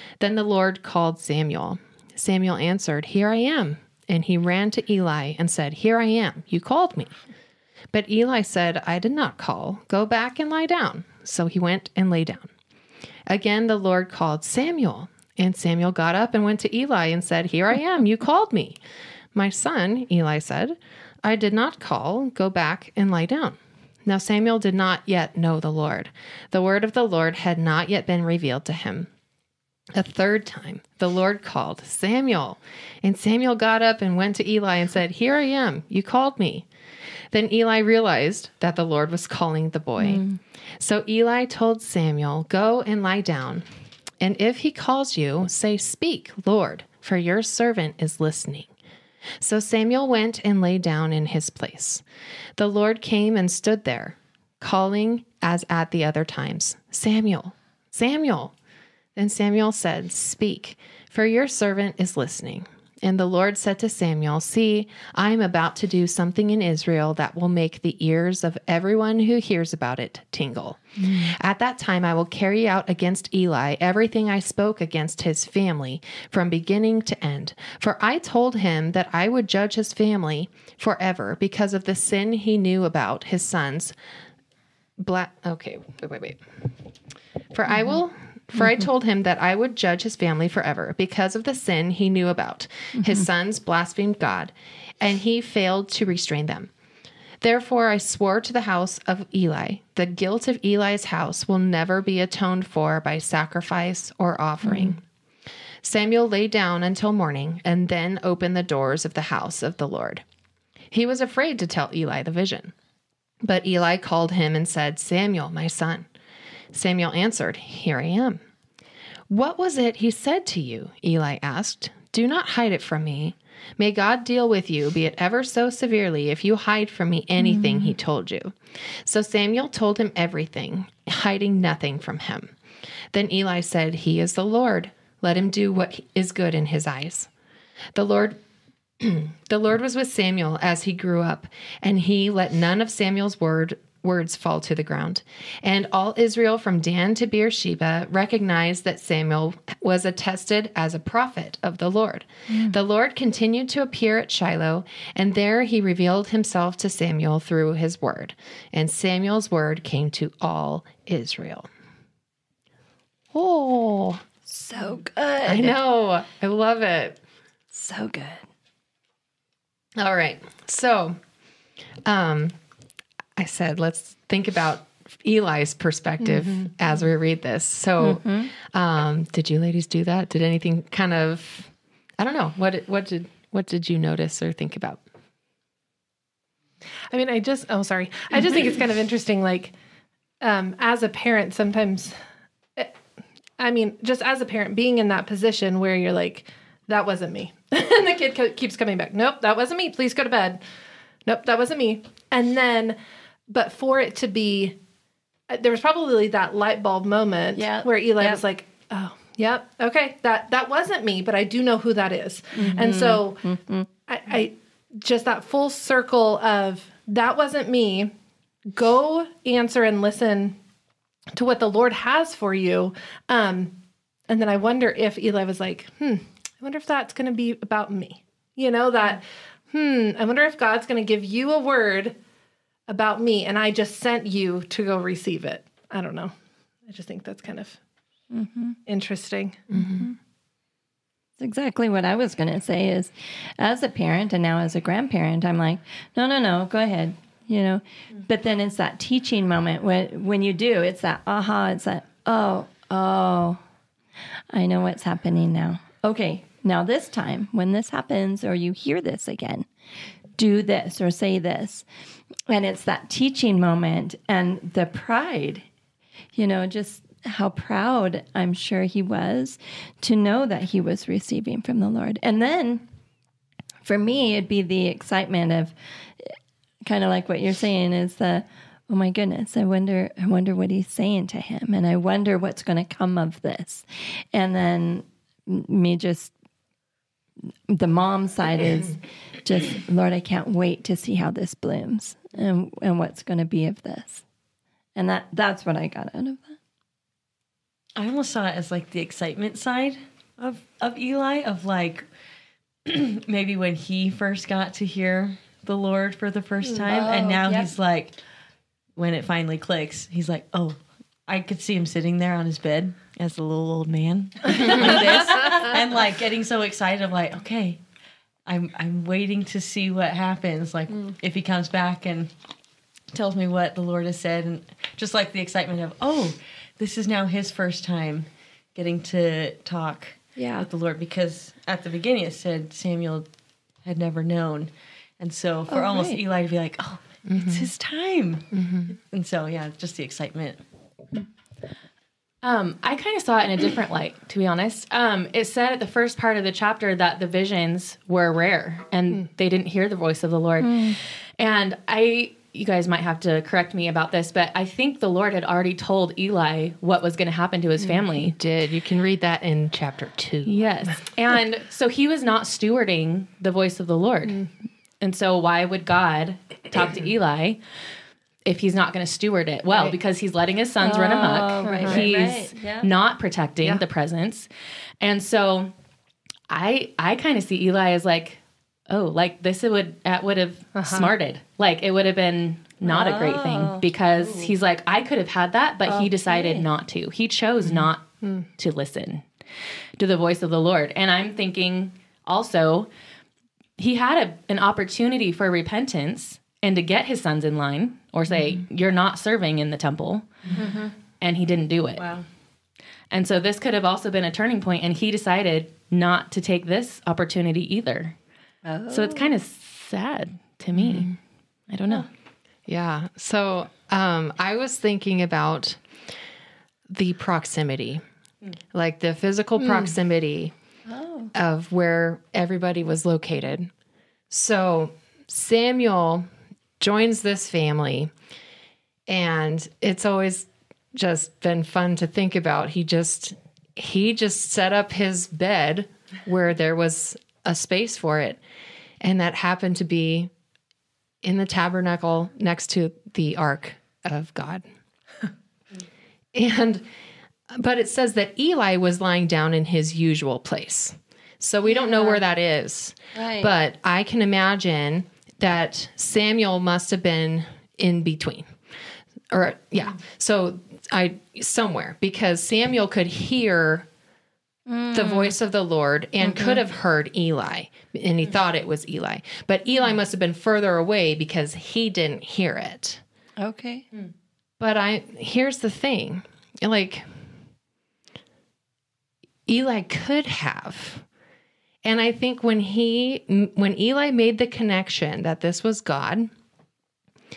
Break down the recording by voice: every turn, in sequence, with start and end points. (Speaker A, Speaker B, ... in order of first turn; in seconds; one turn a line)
Speaker A: 0.2-7.1
Speaker A: 7.9-12.5
Speaker A: 13.3-18.8
Speaker A: 19.3-29.1
Speaker A: 29.9-36.6
Speaker A: 37.3-40.2
Speaker B: 40.0-40.4
Speaker A: 40.8-43.7
Speaker A: 44.2-48.7
Speaker A: 49.4-52.0
Speaker A: 52.6-58.5
Speaker A: 59.1-83.9
Speaker A: 85.0-86.4
Speaker A: 87.5-96.7
Speaker B: 93.0-93.2
Speaker A: 97.4-105.0
Speaker A: 105.8-110.2
Speaker A: 110.9-112.7
Speaker A: 113.4-116.1
Speaker A: 116.7-118.4
Speaker A: 119.3-132.5
Speaker B: 127.4-127.9
Speaker A: 133.1-137.3
Speaker A: 137.9-138.4
Speaker A: 139.0-161.7
Speaker A: 163.3-164.2
Speaker B: 164.5-165.8
Speaker A: 165.4-167.2
Speaker B: 167.7-168.4
Speaker A: 170.0-171.2
Speaker A: 172.0-172.6
Speaker A: 173.4-185.0
Speaker C: 176.2-176.7
Speaker B: 178.0-178.5
Speaker C: 187.1-189.7
Speaker C: 190.4-192.2
Speaker C: 193.6-200.6
Speaker C: 201.2-203.0
Speaker C: 203.5-204.8
Speaker C: 205.5-213.5
Speaker B: 207.5-208.4
Speaker B: 212.5-213.9
Speaker C: 214.1-218.1
Speaker C: 218.7-220.6
Speaker C: 221.3-223.7
Speaker C: 224.3-232.1
Speaker C: 232.9-236.3
Speaker C: 236.8-237.8
Speaker B: 238.3-238.8
Speaker C: 238.8-239.6
Speaker A: 239.7-240.1
Speaker B: 239.8-240.1
Speaker B: 241.4-253.6
Speaker B: 254.5-259.7
Speaker B: 260.4-261.8
Speaker B: 262.5-265.6
Speaker B: 266.3-272.8
Speaker B: 273.8-286.3
Speaker B: 287.7-294.2
Speaker B: 294.9-296.6
Speaker D: 297.9-302.0
Speaker D: 302.8-308.1
Speaker B: 306.8-307.7
Speaker D: 308.9-317.8
Speaker A: 314.6-314.9
Speaker D: 318.4-322.3
Speaker D: 323.1-333.3
Speaker B: 330.4-330.7
Speaker D: 333.8-340.6
Speaker B: 335.7-336.2
Speaker A: 337.3-337.7
Speaker A: 338.5-338.9
Speaker E: 342.4-358.3
Speaker B: 350.6-351.0
Speaker A: 358.1-360.7
Speaker E: 360.4-364.5
Speaker E: 365.0-367.6
Speaker E: 368.4-374.5
Speaker B: 370.8-372.9
Speaker C: 371.6-372.1
Speaker E: 375.0-375.7
Speaker E: 376.5-389.3
Speaker C: 380.7-381.1
Speaker B: 382.8-384.5
Speaker B: 385.9-386.7
Speaker E: 390.0-392.9
Speaker E: 393.8-402.2
Speaker B: 400.6-400.9
Speaker D: 402.0-402.2
Speaker E: 403.1-408.1
Speaker B: 408.6-409.4
Speaker E: 408.9-411.1
Speaker A: 410.7-411.1
Speaker E: 411.7-412.1
Speaker A: 412.6-415.8
Speaker A: 416.9-418.0
Speaker A: 418.7-420.5
Speaker B: 420.9-421.3
Speaker A: 421.3-423.7
Speaker A: 424.3-426.3
Speaker A: 426.8-428.1
Speaker A: 429.1-438.4
Speaker A: 439.0-440.3
Speaker A: 441.2-444.6
Speaker A: 446.3-446.8
Speaker A: 447.5-458.6
Speaker B: 451.6-452.2
Speaker B: 453.1-453.5
Speaker A: 459.3-463.9
Speaker B: 464.7-465.3
Speaker A: 464.9-473.0
Speaker B: 466.2-466.6
Speaker B: 473.4-473.9
Speaker A: 474.6-477.1
Speaker A: 479.4-481.0
Speaker A: 481.8-486.3